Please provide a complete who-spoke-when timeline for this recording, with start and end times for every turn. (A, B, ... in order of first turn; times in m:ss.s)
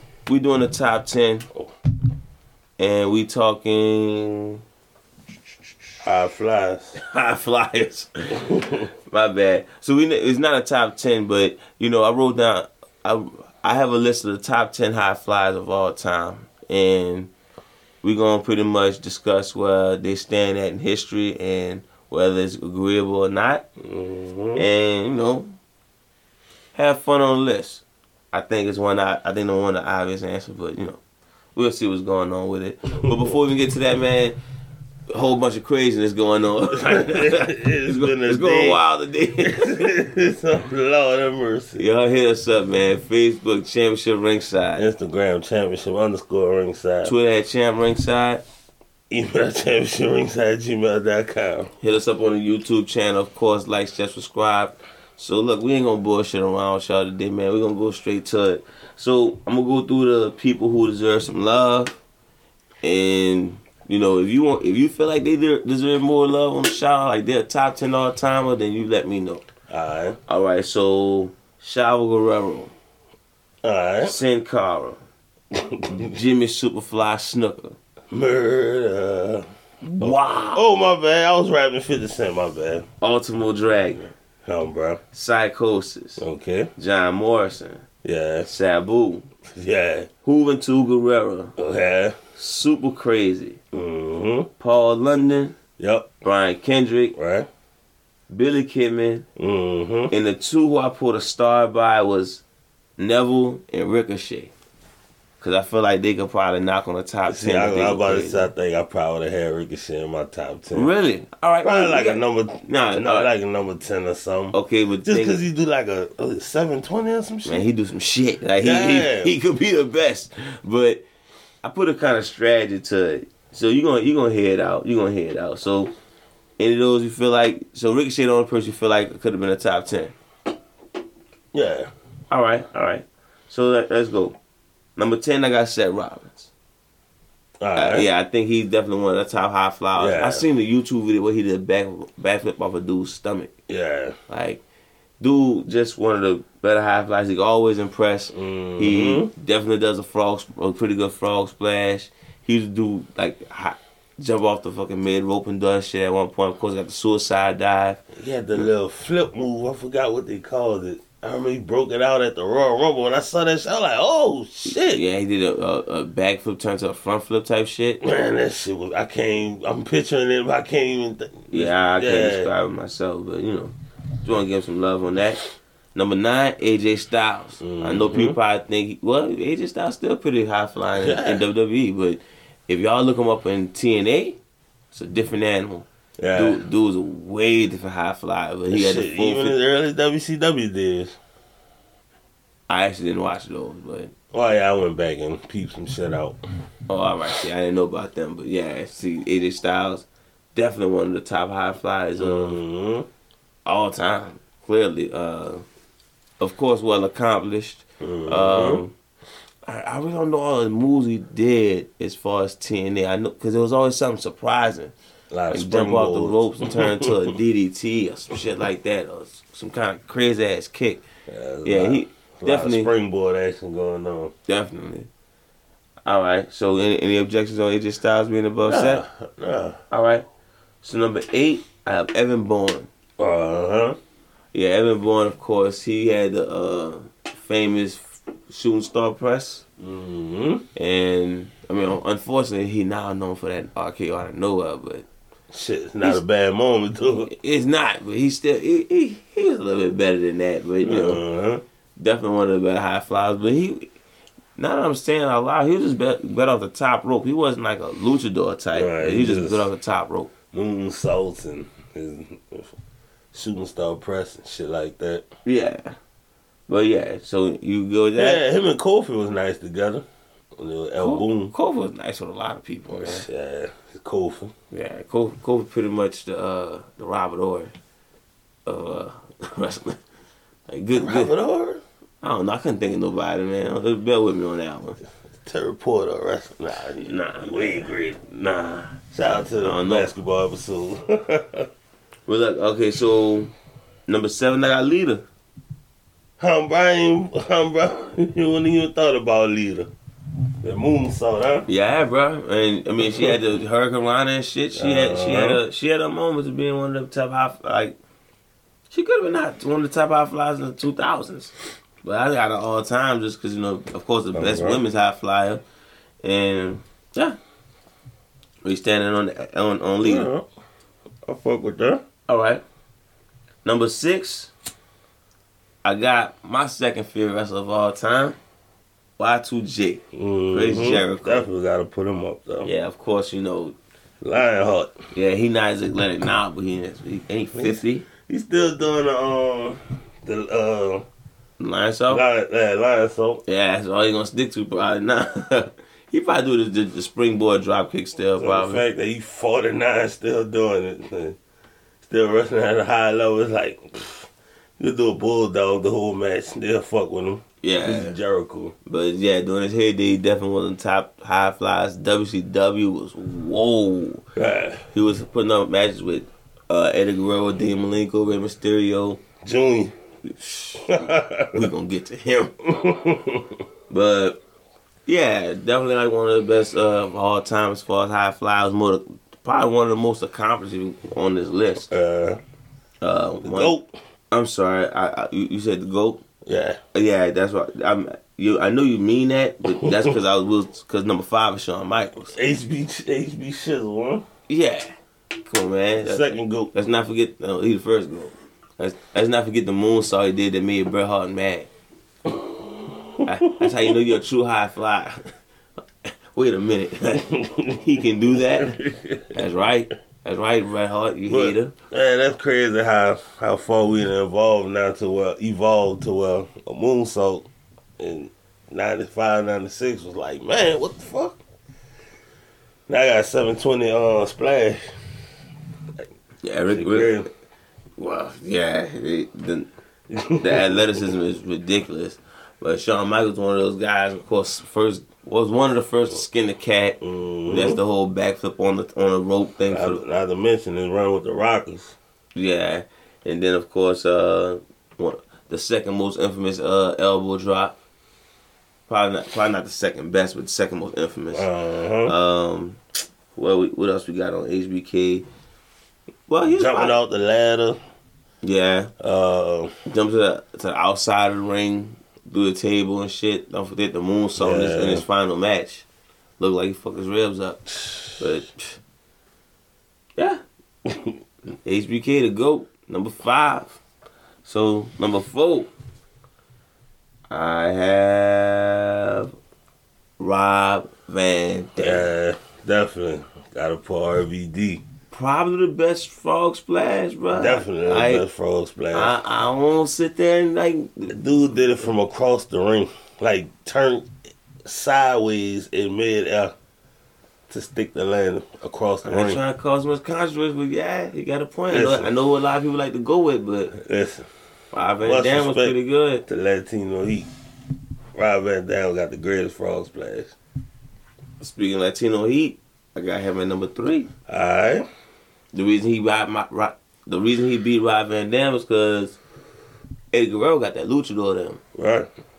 0:00.3-0:01.5 A
0:02.8-0:04.6 A
0:06.0-0:07.0 B
0:07.0-0:17.3 A
0:08.4-0:08.9 B
0:18.0-0:23.7 A
0:23.8-0:24.7 B
0:24.6-0:25.5 A
0:26.7-0:31.0 A
0:31.6-0:34.4 A
0:35.1-0:39.9 A
0:36.7-0:38.8 B
0:39.4-0:41.8 B
0:41.8-0:44.8 A
0:44.8-0:47.2 B
0:47.0-0:48.4 A
0:49.1-0:51.7 B
0:51.8-1:02.0 A
1:02.8-1:09.4 A
1:09.7-1:10.2 B
1:10.3-1:12.7 A
1:13.6-1:14.2 B
1:14.0-1:15.0 A
1:15.5-1:16.0 B
1:15.9-1:17.8 A
1:18.1-1:19.5 B
1:19.8-1:20.6 A
1:20.0-1:22.9 B
1:23.0-1:24.1 A
1:24.4-1:25.0 B
1:25.1-1:26.2 A
1:26.2-1:26.7 B
1:26.8-1:27.8 A
1:28.0-1:28.5 B
1:28.5-1:29.3 A
1:29.5-1:30.1 B
1:30.2-1:31.5 A
1:31.6-1:32.2 B
1:32.4-1:33.6 A
1:33.7-1:34.5 B
1:34.6-1:35.6 A
1:35.8-1:36.1 B
1:36.2-1:37.2 A
1:37.2-1:37.5 B
1:38.3-1:39.3 A
1:39.4-1:40.1 B
1:40.1-1:42.4 A
1:43.0-1:44.5 A
1:45.4-1:48.5 A
1:47.3-1:50.9 B
1:50.7-1:53.3 A
1:51.6-1:57.6 B
1:54.5-1:55.4 A
1:57.4-2:01.0 A
1:58.6-1:59.3 B
2:01.6-2:05.9 A
2:06.6-2:10.2 A
2:11.5-2:11.9 B
2:12.3-2:14.4 A
2:15.0-2:16.5 A
2:17.6-2:18.1 B
2:17.8-2:23.5 A
2:20.0-2:20.5 B
2:23.7-2:24.2 B
2:24.3-2:24.6 A
2:25.2-2:38.0 A
2:28.3-2:29.3 B
2:38.1-2:45.0 B
2:44.7-2:48.0 A
2:48.0-2:52.5 B
2:51.5-2:55.4 A
2:56.0-3:04.4 A
2:57.6-2:58.4 B
3:01.0-3:01.4 B
3:04.9-3:09.6 A
3:06.2-3:06.6 B
3:08.7-3:11.2 B
3:12.7-3:14.1 A
3:14.3-3:16.4 B
3:16.9-3:22.6 A
3:22.2-3:23.1 B
3:23.7-3:25.6 A
3:26.4-3:28.9 A
3:28.0-3:28.8 B
3:29.7-3:34.9 A
3:35.3-3:37.3 B
3:35.5-3:41.0 A
3:41.3-3:44.3 B
3:41.6-3:42.9 A
3:44.5-3:45.1 A
3:46.0-3:49.0 A
3:48.7-3:49.8 B
3:49.9-3:50.2 A
3:50.8-3:52.9 A
3:53.2-3:54.0 B
3:54.5-3:59.6 A
3:59.8-4:00.7 B
4:00.8-4:05.1 A
4:05.5-4:07.3 B
4:07.3-4:11.2 A
4:10.8-4:11.6 B
4:12.0-4:13.9 A
4:14.6-4:20.3 A
4:18.8-4:19.7 B
4:20.5-4:22.7 B
4:23.3-4:25.3 B
4:25.4-4:26.0 A
4:26.7-4:28.4 A
4:28.2-4:30.1 B
4:30.6-4:31.5 B
4:31.0-4:33.3 A
4:32.9-4:34.5 B
4:34.7-4:37.7 A
4:38.7-4:40.0 A
4:40.7-4:41.3 A
4:41.0-4:41.8 B
4:42.2-4:45.0 A
4:45.4-4:48.3 B
4:47.0-4:49.0 A
4:49.1-4:51.7 B
4:49.6-4:50.1 A
4:52.3-4:53.5 A
4:54.1-4:55.2 A
4:56.4-4:59.9 B
5:00.6-5:01.7 B
5:01.7-5:08.0 A
5:04.8-5:05.6 B
5:08.9-5:15.6 A
5:14.3-5:14.8 B
5:16.2-5:17.4 A
5:18.6-5:20.3 A
5:20.0-5:20.4 B
5:21.3-5:22.0 B
5:22.3-5:22.6 A
5:23.6-5:24.5 A
5:25.8-5:28.4 A
5:29.2-5:31.5 A
5:30.1-5:32.7 B
5:32.6-5:33.8 A
5:34.2-5:35.0 B
5:35.2-5:38.1 A
5:37.6-5:41.1 B
5:41.6-5:42.2 A
5:42.1-5:43.4 B
5:43.4-5:48.8 A
5:48.4-5:51.4 B
5:52.0-5:58.8 B
5:57.6-5:58.2 A
5:58.9-6:04.2 A
6:04.4-6:04.8 B
6:04.9-6:09.2 A
6:09.4-6:10.0 B
6:10.7-6:11.7 B
6:11.5-6:12.5 A
6:12.6-6:13.6 B
6:13.9-6:14.4 A
6:15.1-6:21.9 A
6:21.9-6:22.4 B
6:23.0-6:23.8 A
6:23.4-6:23.9 B
6:24.3-6:26.2 A
6:26.5-6:26.8 B
6:26.9-6:32.3 A
6:29.8-6:30.1 B
6:32.3-6:34.2 B
6:34.5-6:41.7 A
6:36.0-6:36.7 B
6:42.5-6:44.0 B
6:43.2-6:45.3 A
6:46.0-6:48.8 A
6:47.3-6:49.4 B
6:49.3-6:51.7 A
6:51.3-6:57.5 B
6:58.0-7:01.4 B
7:02.9-7:04.8 B
7:06.4-7:07.2 A
7:06.7-7:07.3 B
7:08.0-7:09.7 A
7:10.1-7:10.9 B
7:10.4-7:20.0 A
7:17.0-7:17.8 B
7:19.7-7:22.0 B
7:22.4-7:27.8 A
7:28.9-7:31.5 A
7:31.3-7:32.2 B
7:32.0-7:32.8 A
7:33.4-7:35.3 A
7:36.3-7:37.0 A
7:36.5-7:37.8 B
7:38.4-7:38.9 A
7:39.0-7:39.7 B
7:39.9-7:45.8 A
7:44.4-7:45.0 B
7:46.4-7:48.8 A
7:50.2-7:50.4 A
7:50.9-7:51.2 B
7:51.6-7:53.8 A
7:54.4-7:55.7 A
7:57.3-7:59.3 A
8:00.2-8:02.1 A
8:01.8-8:04.8 B
8:05.1-8:08.2 A
8:07.3-8:09.2 B
8:08.9-8:11.2 A
8:11.1-8:14.1 B
8:14.6-8:16.5 B
8:17.5-8:19.4 B
8:19.0-8:23.7 A
8:21.7-8:22.1 B
8:23.7-8:24.2 B
8:24.7-8:26.2 A
8:25.0-8:27.3 B
8:28.2-8:30.4 B
8:31.4-8:34.1 A
8:34.3-8:34.9 B
8:35.5-8:39.2 A
8:40.1-8:41.6 A
8:41.8-8:42.1 B